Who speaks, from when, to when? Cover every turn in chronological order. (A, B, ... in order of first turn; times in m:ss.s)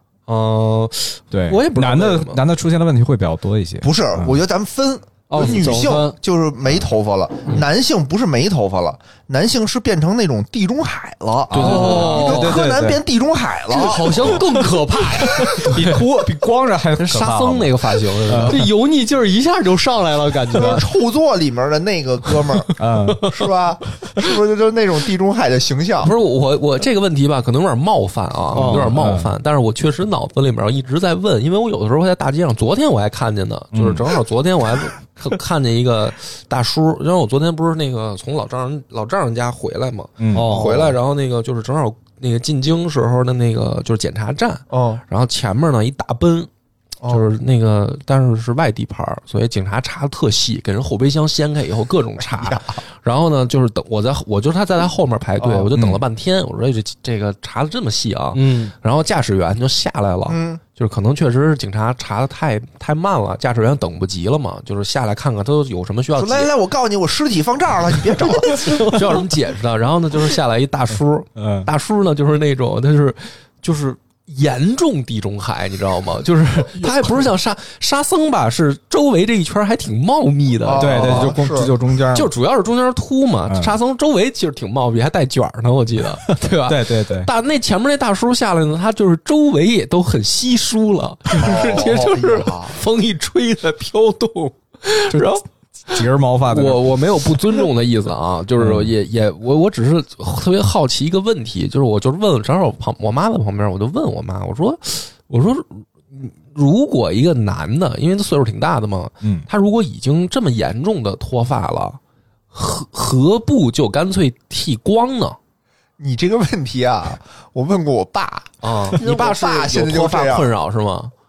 0:00.3-0:02.4 A
0:01.3-0:04.4 B
0:03.8-0:14.5 C
0:05.3-0:06.2 D
0:11.5-0:13.0 B
0:11.5-0:12.4 A
0:11.6-0:12.6 D
0:13.7-0:15.6 D
0:15.2-0:15.7 C
0:15.4-0:18.7 B
0:15.6-0:16.0 A
0:17.0-0:18.7 A
0:18.3-0:20.9 D
0:20.5-0:26.1 C
0:22.8-0:23.3 B
0:26.0-0:46.5 A
0:28.5-0:29.0 D
0:28.6-0:29.3 B
0:33.7-0:34.1 B
0:40.2-0:40.6 B
0:40.3-0:40.9 D
0:40.5-0:40.9 C
0:44.7-0:45.0 C
0:47.0-0:47.3 C
0:47.1-1:06.5 A
0:52.3-0:52.8 C
0:55.4-0:55.7 C
0:55.8-0:56.0 B
0:58.3-0:58.7 D
1:00.3-1:00.6 C
1:06.2-1:09.2 C
1:08.2-1:21.4 A
1:11.4-1:11.7 B
1:20.6-1:21.7 C
1:20.8-1:22.3 B
1:22.1-1:52.0 A
1:23.4-1:23.8 B
1:26.3-1:27.3 B
1:31.3-1:32.8 C
1:35.9-1:37.0 B
1:38.6-1:38.9 B
1:52.5-1:55.4 A
1:56.0-2:00.5 C
1:58.6-2:01.1 A